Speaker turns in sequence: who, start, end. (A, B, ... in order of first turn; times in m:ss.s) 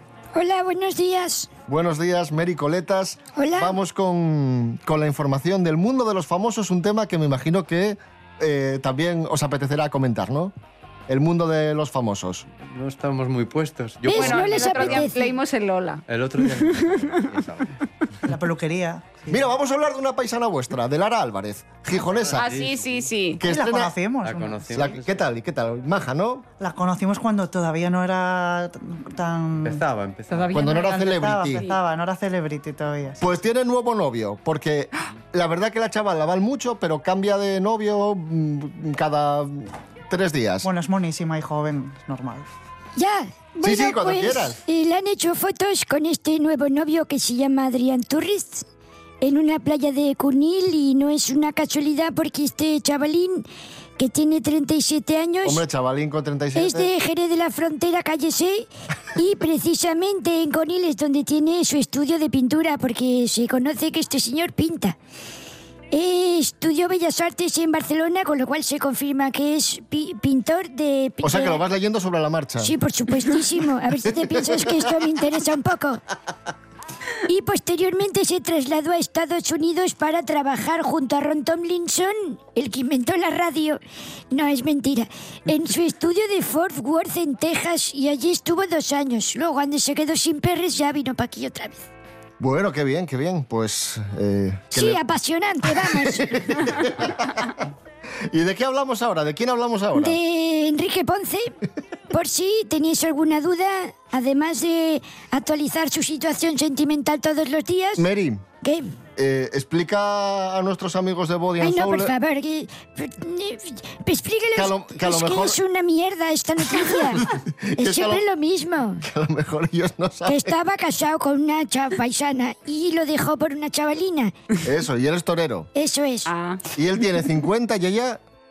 0:00.3-0:01.5 A
0:01.7-0:10.5 B
0:03.4-0:03.8 A
0:11.1-0:12.4 B
0:12.6-0:15.1 C
0:14.0-0:15.4 A
0:14.1-0:17.2 D
0:16.1-0:17.8 C
0:18.3-0:19.5 E
0:19.3-0:22.5 B
0:22.1-0:23.1 C
0:22.4-0:23.4 D
0:23.4-0:24.0 B
0:23.4-0:24.8 E
0:24.2-0:25.3 C
0:24.7-0:26.4 B
0:26.6-0:29.8 E
0:29.6-0:30.6 C
0:30.3-0:31.8 D
0:30.5-0:31.6 B
0:30.8-0:33.3 E
0:33.2-0:40.7 B
0:40.6-0:42.5 E
0:43.0-0:48.6 A
0:43.6-0:44.6 B
0:49.2-0:53.4 A
0:54.0-0:55.6 A
0:55.4-0:56.9 B
0:56.5-1:05.0 A
1:05.9-1:11.6 A
1:11.2-1:12.7 B
1:12.6-1:16.0 A
1:14.3-1:15.0 B
1:17.3-1:23.8 A
1:24.3-1:31.8 A
1:32.4-1:35.0 B
1:34.7-1:36.8 A
1:35.8-1:37.5 B
1:38.3-1:40.2 B
1:39.9-1:41.5 A
1:42.1-1:48.1 A
1:48.0-1:48.4 B
1:48.6-1:48.9 A
1:49.2-1:52.1 B
1:51.6-1:57.2 A
1:54.5-1:55.6 B
1:56.8-1:58.2 B
1:57.8-1:59.0 A
1:59.0-2:00.5 B
2:00.2-2:04.3 A
2:04.6-2:05.7 B
2:05.8-2:06.3 A
2:06.3-2:06.6 D
2:06.7-2:08.2 B